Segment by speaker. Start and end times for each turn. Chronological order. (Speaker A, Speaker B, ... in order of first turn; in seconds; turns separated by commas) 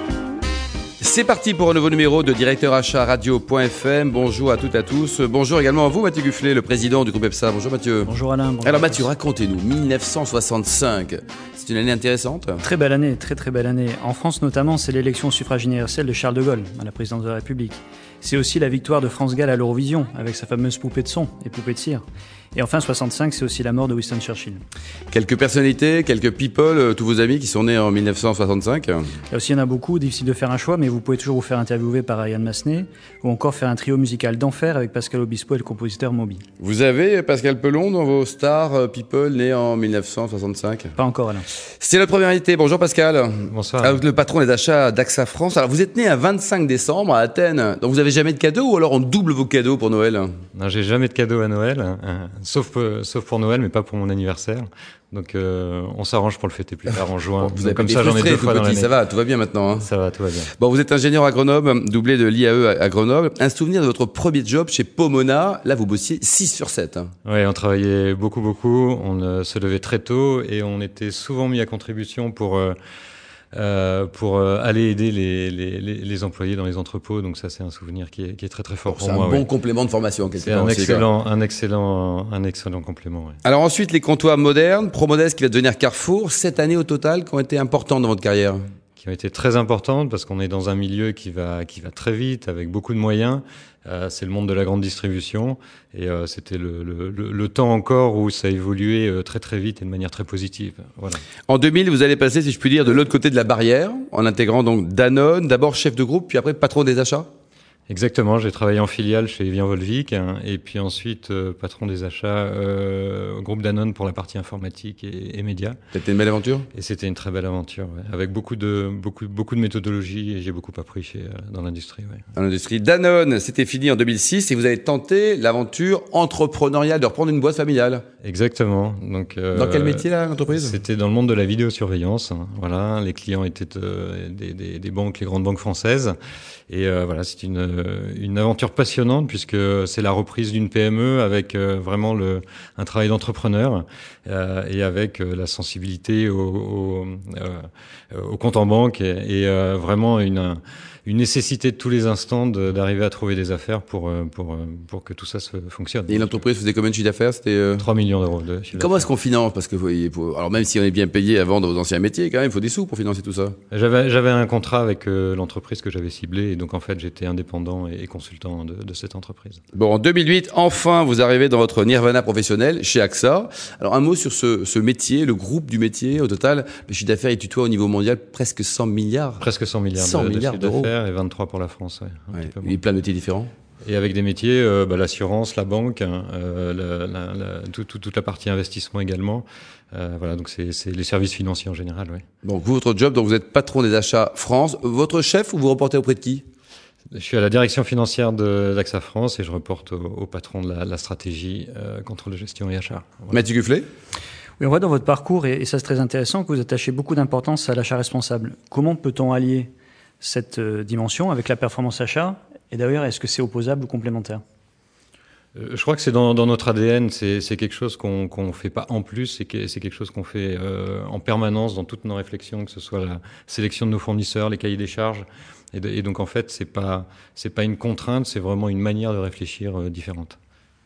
Speaker A: 1.0-8.1, Speaker B: 8.0-9.1, Speaker A: 8.6-12.6, Speaker B: 12.6-22.0, Speaker B: 22.5-24.6, Speaker A: 25.1-29.1, Speaker B: 29.3-36.4, Speaker A: 36.6-40.9, Speaker B: 41.0-41.5, Speaker A: 41.8-50.4, Speaker C: 43.5-44.0, Speaker C: 50.6-58.9, Speaker A: 57.4-59.9, Speaker C: 59.8-60.5, Speaker A: 60.5-67.1, Speaker C: 67.2-72.8, Speaker C: 73.5-79.5, Speaker A: 78.9-81.1, Speaker C: 80.4-83.4, Speaker A: 83.4-88.6, Speaker C: 89.0-101.2, Speaker A: 101.5-107.3, Speaker C: 107.9-115.8, Speaker A: 116.0-116.7, Speaker C: 116.7-122.2, Speaker A: 122.3-128.1, Speaker C: 128.2-136.1, Speaker A: 129.5-130.8, Speaker C: 136.7-156.4, Speaker A: 156.1-157.8, Speaker C: 157.8-159.1, Speaker A: 158.8-163.6, Speaker C: 163.7-169.6, Speaker A: 169.8-180.9, Speaker C: 179.4-182.8, Speaker A: 182.3-183.5, Speaker C: 183.8-192.2, Speaker A: 192.4-196.4, Speaker C: 197.1-203.4, Speaker A: 203.3-203.9, Speaker B: 204.6-214.4, Speaker C: 215.6-230.4